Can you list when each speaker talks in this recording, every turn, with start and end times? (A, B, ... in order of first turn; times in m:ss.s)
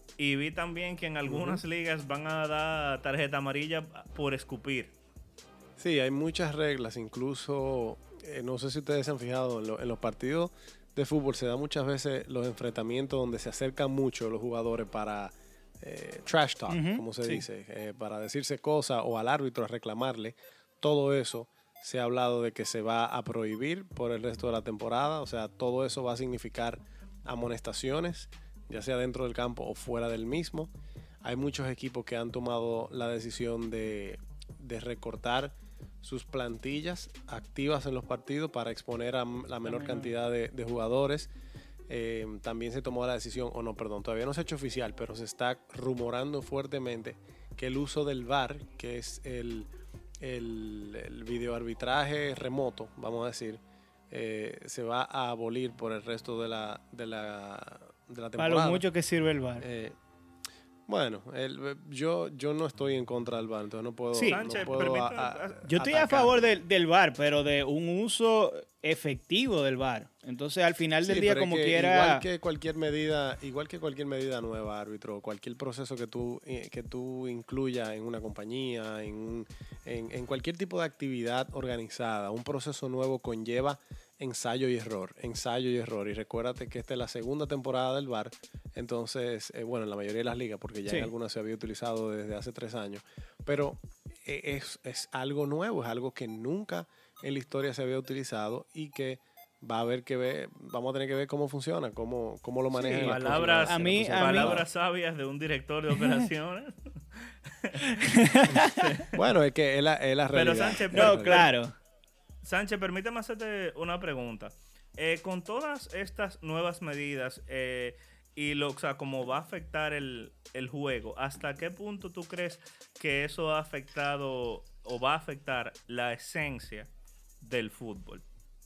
0:00.2-0:04.9 A
0:01.2-0:01.6 B
0:05.8-0:30.7 B
0:16.7-0:17.4 C
0:31.2-0:41.3 B
0:39.6-0:40.1 C
0:41.9-0:49.7 B
0:50.2-0:58.8 B
0:58.4-0:59.6 C
0:59.6-1:00.0 B
1:00.9-1:06.5 B
1:04.1-1:04.5 C
1:04.2-1:05.6 A
1:05.6-1:12.2 C
1:11.0-1:44.6 B
1:42.7-1:44.6 C
1:43.0-1:48.0 A
1:48.0-1:48.8 C
1:48.6-1:49.1 A
1:49.1-1:51.4 B
1:50.3-1:51.5 A
1:50.9-1:51.7 C
1:52.4-2:06.9 A
2:07.4-2:08.2 A